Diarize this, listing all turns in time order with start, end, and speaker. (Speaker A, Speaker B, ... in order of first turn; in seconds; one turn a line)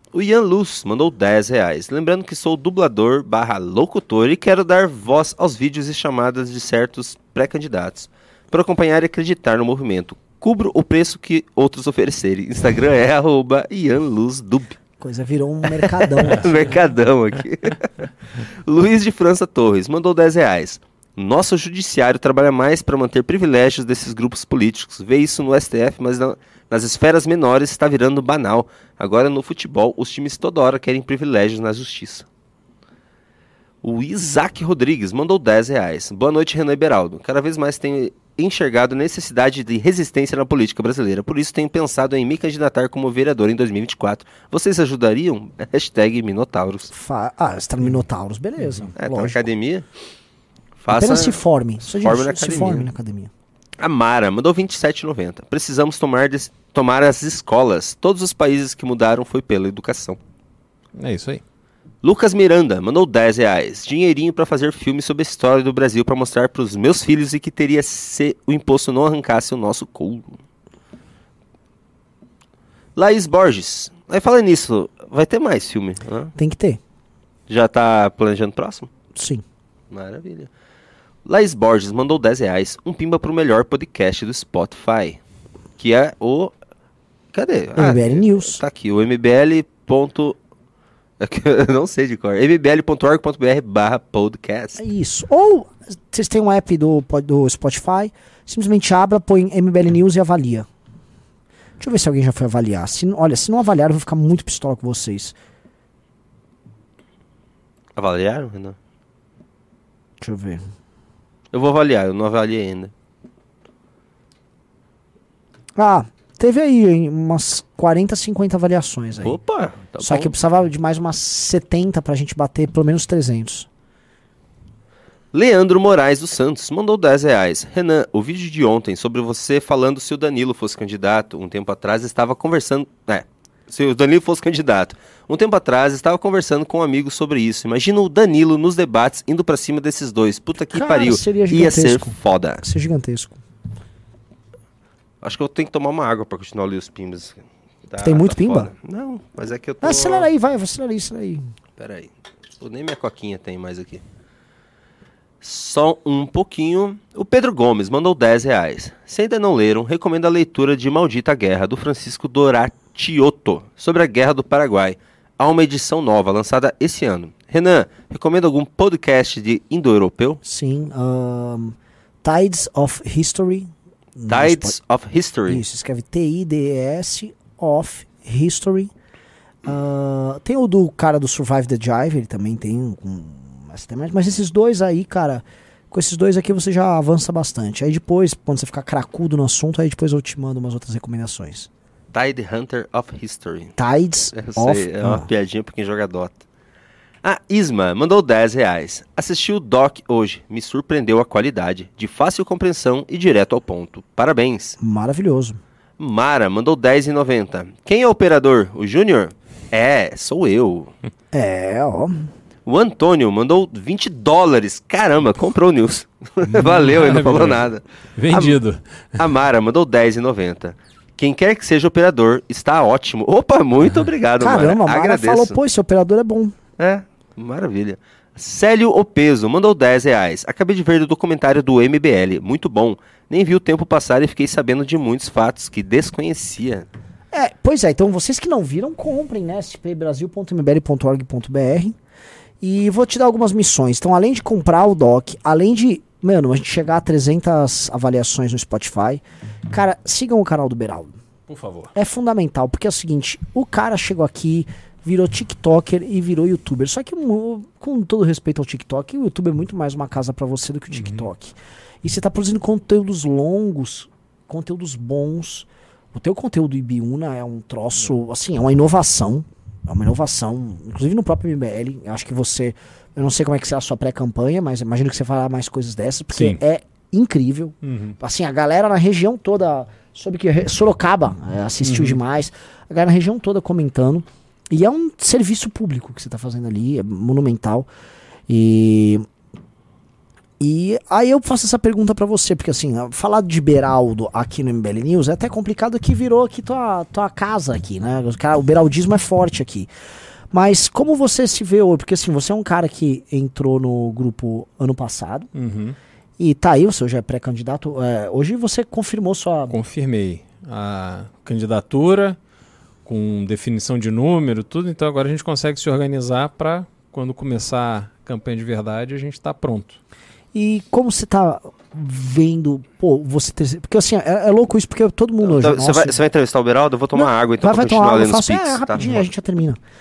Speaker A: 0.1-14.8
Speaker B: 15.0-16.7
Speaker A: 15.8-32.3
Speaker A: 33.8-46.9
Speaker B: 46.9-49.5
Speaker C: 48.6-48.9
Speaker A: 49.0-49.9
Speaker A: 50.8-51.4
Speaker B: 50.9-53.3
Speaker A: 52.0-52.9
Speaker A: 53.8-60.2
Speaker C: 61.0-61.4
Speaker A: 62.0-70.4
Speaker A: 73.0-76.3
Speaker B: 76.4-76.8
Speaker A: 77.5-78.9
Speaker B: 79.2-79.4
Speaker A: 79.9-80.5
Speaker A: 81.3-85.2
Speaker A: 85.8-86.5
Speaker A: 87.3-90.4
Speaker B: 87.8-88.6
Speaker A: 91.2-94.8
Speaker B: 94.8-100.7
Speaker B: 101.8-105.4
Speaker A: 108.0-108.8
Speaker B: 110.2-110.6
Speaker A: 111.5-112.9
Speaker B: 115.8-119.4
Speaker A: 119.2-120.3
Speaker B: 120.0-123.7
Speaker A: 125.3-142.6
Speaker B: 140.7-143.4
Speaker A: 145.2-150.3
Speaker B: 148.0-148.7
Speaker B: 149.8-151.4
Speaker A: 151.8-154.0
Speaker A: 155.4-170.4
Speaker B: 170.4-174.7
Speaker A: 174.3-175.6
Speaker B: 175.5-178.9
Speaker B: 179.7-191.7
Speaker A: 192.1-193.8
Speaker B: 193.8-195.3
Speaker A: 194.3-196.4
Speaker A: 197.2-204.8
Speaker B: 204.8-205.6
Speaker A: 206.0-210.9
Speaker B: 211.3-212.3
Speaker A: 212.7-218.6
Speaker C: 216.5-218.8
Speaker A: 219.2-225.6
Speaker B: 224.4-226.5
Speaker A: 226.8-236.9
Speaker B: 237.3-242.0
Speaker B: 242.6-251.2
Speaker C: 251.5-251.9
Speaker B: 251.9-287.9
Speaker C: 260.9-261.3
Speaker C: 276.3-276.6
Speaker C: 277.8-278.2
Speaker C: 281.8-282.2
Speaker B: 288.5-289.2
Speaker B: 290.6-299.9
Speaker B: 300.5-305.5
Speaker C: 305.6-306.0
Speaker B: 306.4-309.8
Speaker C: 309.7-312.4
Speaker C: 313.1-320.0
Speaker B: 320.5-326.2
Speaker A: 325.4-329.3
Speaker B: 327.1-329.8